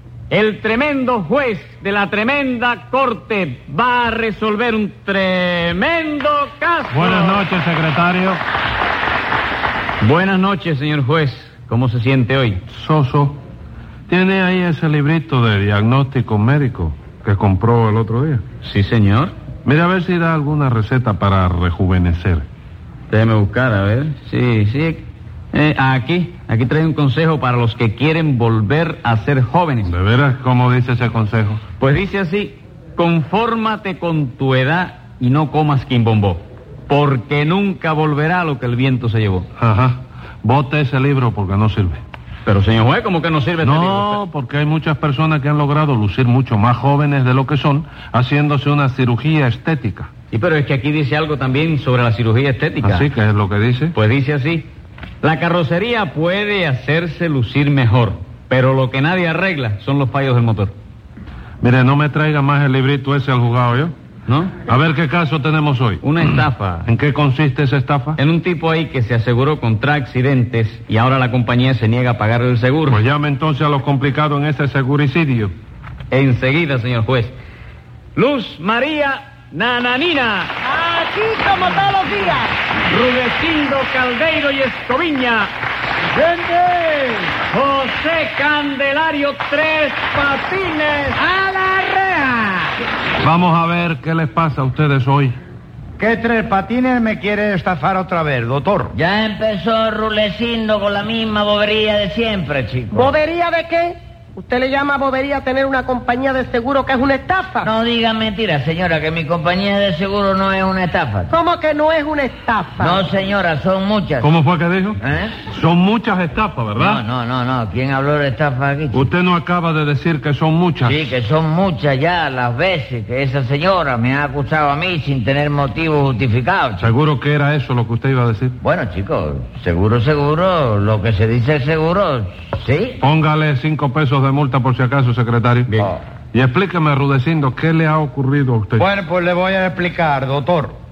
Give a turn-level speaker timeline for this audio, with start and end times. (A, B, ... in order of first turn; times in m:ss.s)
0:00.3-0:07.4 A
0:06.9-0:08.4 B
0:10.0-0:12.6 A
0:12.7-0:13.4 B
0:14.1-0:18.4 B
0:18.6-0:19.3 A
0:19.6-0:22.4 B
0:23.1-0:29.9 A
0:29.8-0:31.6 B
0:31.8-0:39.5 A
0:39.6-0:42.0 B
0:42.4-0:44.2 A
0:43.6-0:50.1 B
0:50.3-0:53.1 A
0:52.8-0:53.9 B
0:53.9-0:54.7 A
0:55.2-1:00.7 A
1:01.6-1:03.9 B
1:04.3-1:04.6 A
1:04.6-1:06.0 B
1:06.0-1:06.8 A
1:06.8-1:08.2 B
1:08.2-1:13.0 A
1:12.9-1:15.5 B
1:16.1-1:17.3 A
1:18.2-1:20.5 A
1:20.6-1:22.5 C
1:22.8-1:25.5 A
1:26.2-1:27.2 D
1:27.5-1:31.2 A
1:31.4-1:32.4 C
1:33.2-1:35.4 B
1:36.0-1:38.9 D
1:38.9-1:43.1 E
1:42.9-1:47.7 C
1:47.6-1:51.3 E
1:51.3-1:53.0 C
1:52.8-1:54.3 E
1:54.2-1:57.0 B
1:55.0-1:55.4 E
1:56.8-1:59.0 E
1:58.9-2:01.2 B
2:00.8-2:06.9 E
2:06.8-2:08.6 B
2:08.6-2:13.0 E
2:13.0-2:15.7 B
2:15.7-2:15.9 A
2:16.3-2:18.9 B
2:18.8-2:20.7 D